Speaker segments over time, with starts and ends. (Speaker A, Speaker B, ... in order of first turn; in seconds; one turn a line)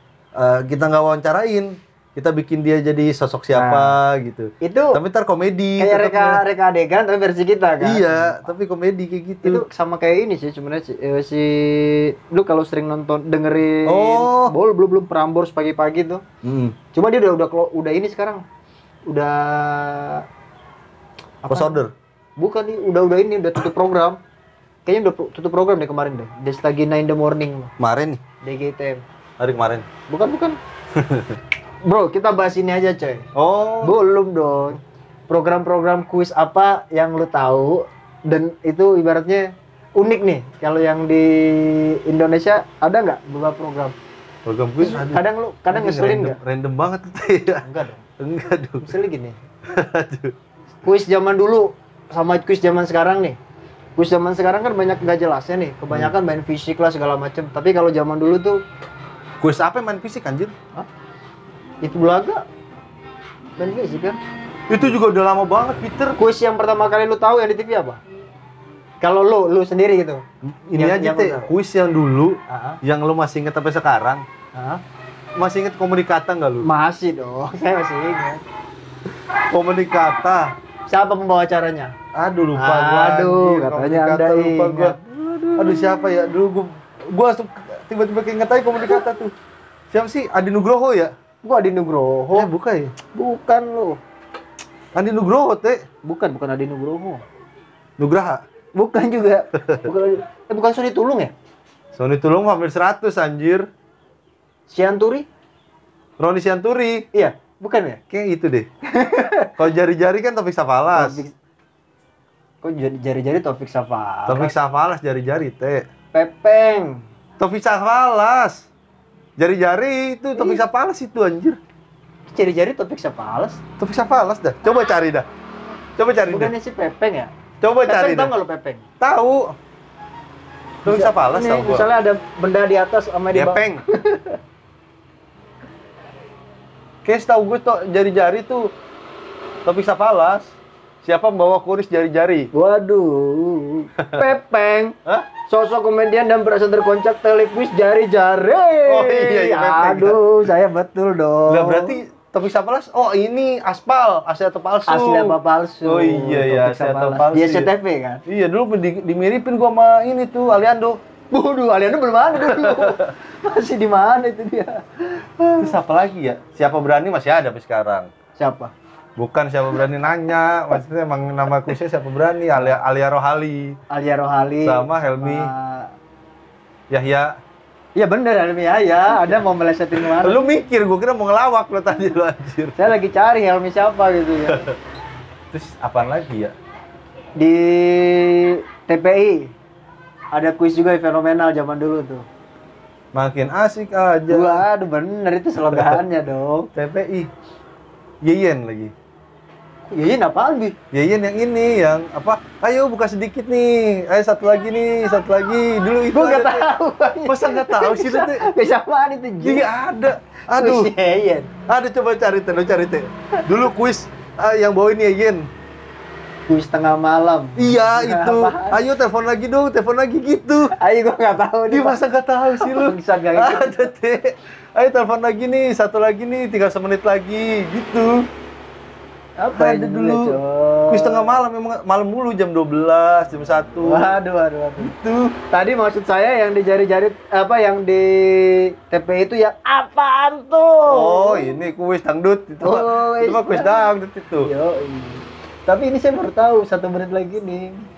Speaker A: 0.3-6.4
Speaker B: 3.5-4.0
Speaker B: 4.6-5.0
Speaker B: 5.8-8.5
Speaker A: 7.8-9.7
Speaker B: 9.4-16.2
Speaker A: 13.8-14.5
Speaker A: 16.4-16.8
Speaker B: 16.9-18.4
Speaker B: 19.1-20.2
Speaker B: 21.4-21.8
Speaker A: 21.5-21.9
Speaker B: 22.4-24.2
Speaker B: 24.9-27.7
Speaker A: 27.8-28.2
Speaker B: 28.4-29.0
Speaker A: 29.4-29.9
Speaker B: 30.1-30.6
Speaker A: 30.9-31.4
Speaker B: 31.9-33.3
Speaker A: 33.4-33.9
Speaker B: 33.8-43.9
Speaker A: 44.4-47.6
Speaker B: 44.8-46.4
Speaker B: 47.6-48.0
Speaker A: 48.2-48.9
Speaker B: 48.8-49.4
Speaker A: 49.7-50.3
Speaker B: 50.8-53.4
Speaker B: 54.0-58.6
Speaker A: 59.4-60.5
Speaker B: 61.8-62.4
Speaker B: 63.6-64.2
Speaker A: 64.7-66.2
Speaker B: 66.2-68.0
Speaker B: 69.0-70.2
Speaker A: 70.4-74.2
Speaker B: 70.8-71.5
Speaker B: 72.5-72.8
Speaker B: 74.5-74.8
Speaker A: 75.4-76.7
Speaker B: 76.6-78.4
Speaker A: 79.5-80.5
Speaker B: 80.9-81.9
Speaker A: 82.2-85.0
Speaker B: 82.5-86.1
Speaker A: 85.6-89.3
Speaker A: 89.9-91.1
Speaker B: 91.4-92.5
Speaker A: 92.3-92.9
Speaker B: 93.1-94.0
Speaker A: 94.9-95.8
Speaker B: 96.0-97.2
Speaker A: 98.0-98.4
Speaker B: 98.7-101.3
Speaker A: 101.9-103.7
Speaker B: 104.7-105.3
Speaker A: 106.2-107.1
Speaker B: 107.1-108.0
Speaker A: 108.1-108.7
Speaker B: 108.9-109.5
Speaker A: 109.6-111.2
Speaker B: 110.9-111.3
Speaker B: 112.6-114.5
Speaker A: 114.3-115.9
Speaker B: 116.1-117.0
Speaker A: 117.4-118.7
Speaker A: 119.4-121.6
Speaker B: 120.3-120.6
Speaker B: 122.3-123.6
Speaker A: 123.8-125.3
Speaker A: 126.0-126.5
Speaker B: 126.2-127.3
Speaker A: 127.6-128.3
Speaker B: 127.8-128.8
Speaker A: 129.0-129.5
Speaker A: 130.8-131.9
Speaker B: 130.8-134.4
Speaker A: 133.3-133.8
Speaker A: 137.0-138.7
Speaker A: 139.7-142.5
Speaker B: 142.5-152.0
Speaker A: 144.0-144.3
Speaker A: 148.9-150.2
Speaker A: 151.5-157.7
Speaker B: 154.9-158.2
Speaker A: 158.3-161.0
Speaker B: 161.3-165.7
Speaker A: 162.4-163.1
Speaker A: 165.6-168.1
Speaker B: 168.4-168.7
Speaker A: 169.2-173.8
Speaker B: 173.9-175.9
Speaker A: 174.6-175.5
Speaker A: 176.9-177.3
Speaker B: 177.9-180.4
Speaker A: 179.9-182.9
Speaker B: 182.8-184.7
Speaker A: 184.5-184.8
Speaker A: 185.5-186.5
Speaker B: 187.4-189.5
Speaker B: 190.3-192.2
Speaker A: 193.1-194.6
Speaker B: 194.3-196.7
Speaker A: 196.7-197.3
Speaker A: 198.2-198.9
Speaker B: 199.8-200.7
Speaker A: 200.9-206.7
Speaker B: 206.1-209.7
Speaker A: 207.2-208.5
Speaker A: 209.4-210.9
Speaker B: 210.5-211.5
Speaker A: 211.7-215.5
Speaker B: 216.5-218.8
Speaker A: 217.6-220.7
Speaker B: 220.8-222.0
Speaker A: 221.7-228.3
Speaker B: 222.6-223.9
Speaker B: 229.4-231.3
Speaker A: 229.5-230.3
Speaker A: 230.9-234.1
Speaker B: 233.8-234.9
Speaker A: 234.8-235.3
Speaker B: 235.5-241.6
Speaker A: 240.8-244.5
Speaker B: 242.6-247.8